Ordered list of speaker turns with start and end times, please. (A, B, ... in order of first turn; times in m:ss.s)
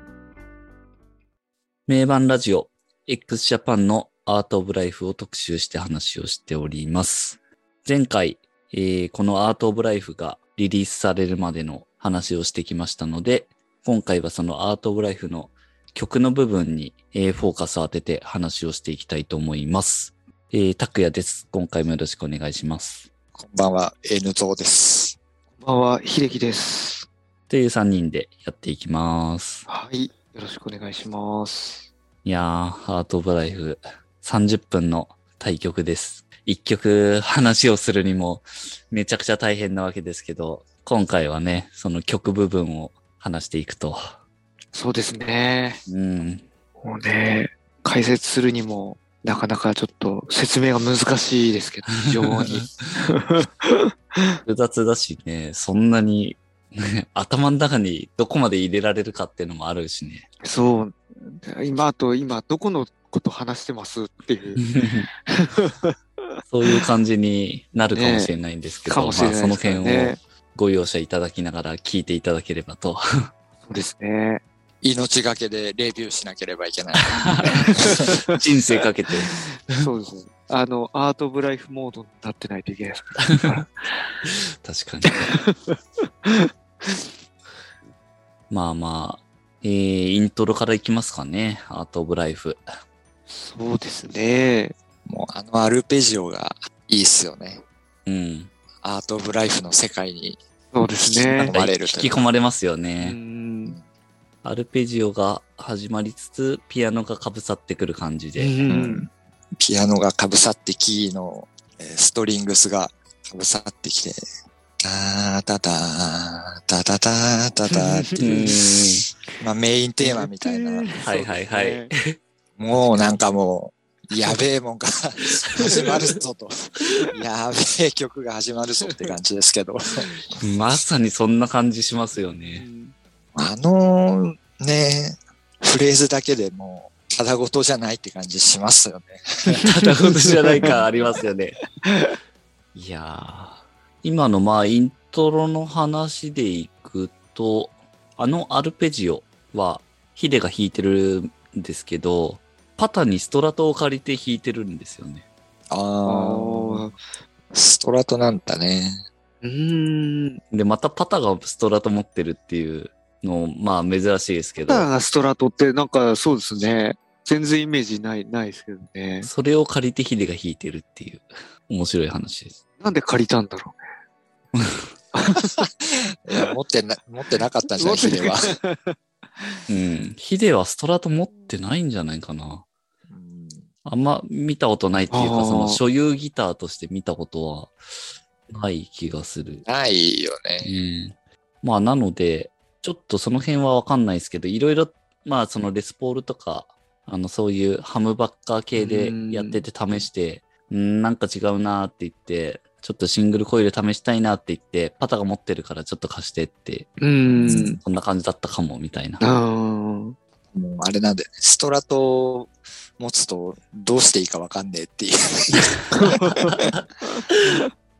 0:01.9-0:23.0 A
0:23.3-0:25.2 B
0:25.6-0:27.1 C
0:27.5-0:29.6 A
0:29.7-0:31.8 C
0:32.2-0:44.2 A
0:44.7-0:45.8 C
0:45.9-0:46.4 A
0:46.8-0:54.4 C
0:52.0-0:53.0 A
0:54.4-1:00.2 A
1:00.4-1:06.9 C
1:04.6-1:05.1 A
1:06.5-1:13.3 A
1:07.9-1:08.3 C
1:08.9-1:10.2 C
1:13.6-1:14.4 C
1:14.8-1:18.1 B
1:17.1-1:19.3 A
1:17.8-1:18.4 C
1:19.3-1:23.7 C
1:23.3-1:23.6 A
1:24.2-1:25.3 A
1:25.0-1:27.0 C
1:28.5-1:32.6 A
1:33.3-1:34.7 C
1:35.0-1:37.6 B
1:38.0-1:38.5 A
1:38.8-1:40.4 B
1:40.7-1:41.5 C
1:41.0-1:42.2 B
1:41.5-1:43.2 A
1:43.0-1:43.8 C
1:44.4-1:48.5 A
1:48.4-1:49.0 C
1:48.7-1:54.2 B
1:54.8-1:58.5 B
1:57.7-1:58.6 C
1:58.2-1:59.0 A
1:59.4-2:00.9 B
2:00.0-2:01.9 C
2:01.0-2:02.2 A
2:02.6-2:10.1 B
2:08.8-2:09.1 C
2:10.4-2:12.6 A
2:12.5-2:12.9 C
2:13.3-2:19.7 B
2:19.6-2:21.6 A
2:19.6-2:19.9 C
2:20.4-2:20.7 C
2:20.6-2:21.0 B
2:21.8-2:22.2 C
2:22.7-2:35.2 A
2:35.7-2:36.9 B
2:36.0-2:36.9 C
2:37.5-2:39.0 B
2:39.4-2:40.4 C
2:40.5-2:44.9 A
2:44.6-2:49.3 C
2:49.2-2:52.6 A
2:52.8-2:53.8 C
2:54.5-2:54.8 A
2:55.1-2:55.7 C
2:56.2-2:58.6 B
2:57.7-2:59.6 C
2:59.7-3:02.6 A
3:03.1-3:03.6 B
3:03.8-3:07.8 A
3:05.1-3:05.8 C
3:08.5-3:09.6 A
3:09.6-3:10.7 B
3:10.6-3:26.9 A
3:18.8-3:19.6 C
3:27.0-3:27.8 C
3:27.3-3:27.8 B
3:27.4-3:29.2 A
3:29.2-3:30.2 C
3:30.5-3:36.4 B
3:35.9-3:37.7 C
3:36.0-3:37.4 A